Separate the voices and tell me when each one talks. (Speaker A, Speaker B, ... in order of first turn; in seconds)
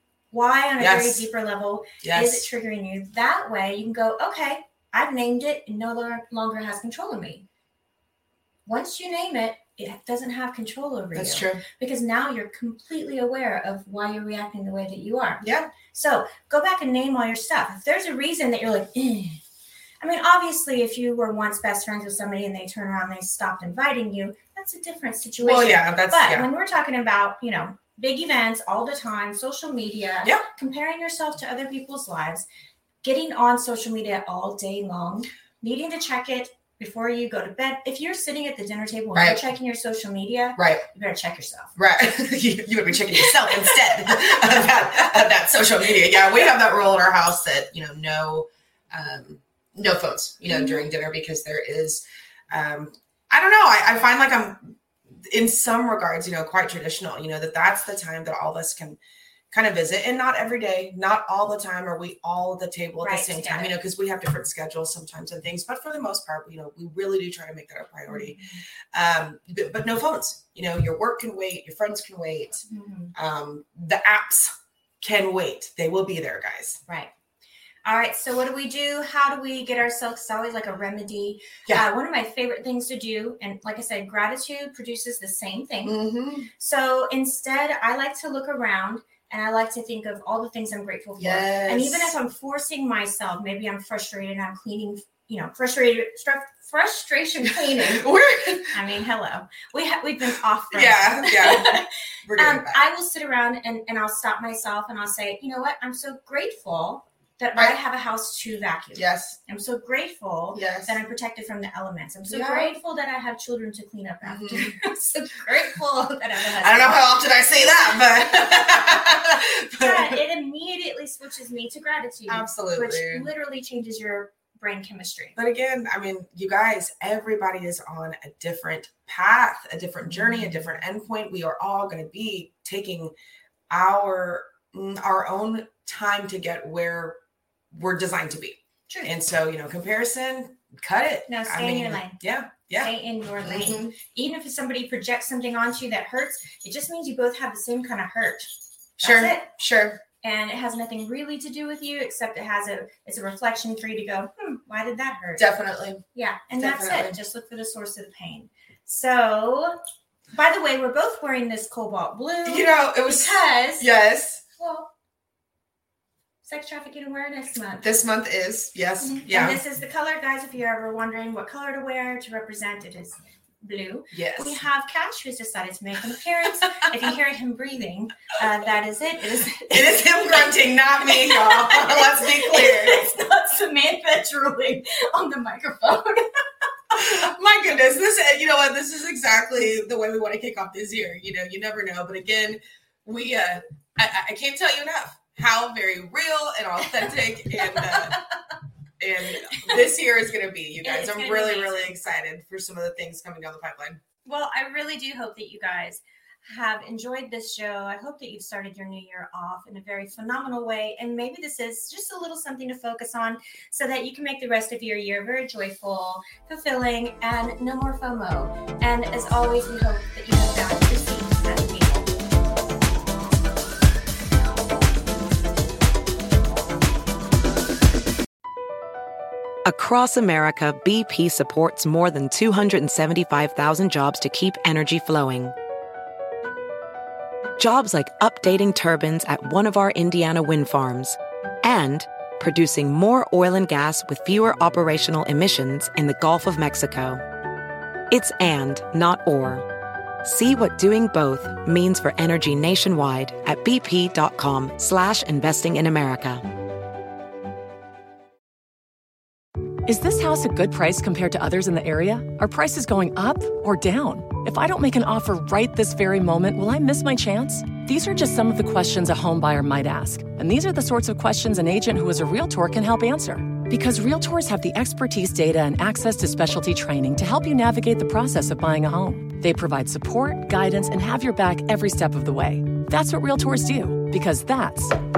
Speaker A: 0.3-7.5, 8.7-19.4, 20.0-32.5, 33.0-41.7, 50.5-50.9, 63.0-63.7, 68.1-68.6, 72.7-73.1, 77.8-86.0, 86.6-98.1, 98.7-117.6, 119.8-125.4, 130.1-130.6, 141.3-142.2, 142.7-149.5, 150.2-155.5, 156.1-159.8, 160.3-163.9, 164.6-164.9, 166.4-167.9, 169.0-186.3, 197.6-198.2, 199.4-199.9, 200.8-201.9, 204.2-222.1
Speaker B: 0.8-1.3, 2.0-2.5, 11.2-11.7, 15.4-15.7, 25.4-26.5, 39.1-39.4, 40.6-40.9, 41.8-59.0, 59.5-72.6, 73.2-76.8, 85.8-86.5, 91.2-92.2, 97.4-98.8, 100.7-102.8, 109.0-109.4, 110.5-111.0, 112.3-112.8, 114.2-115.0, 116.6-120.2, 122.3-123.3, 125.4-133.1, 133.7-137.2, 137.7-143.9, 149.0-150.0, 155.4-156.0, 156.6-157.2, 162.5-164.4, 167.8-169.6, 174.1-174.6, 179.7-183.1, 186.9-198.2, 199.0-204.0
Speaker C: 229.7-235.6, 237.6-247.2, 248.1-249.7, 250.2-256.4
Speaker D: 259.9-285.0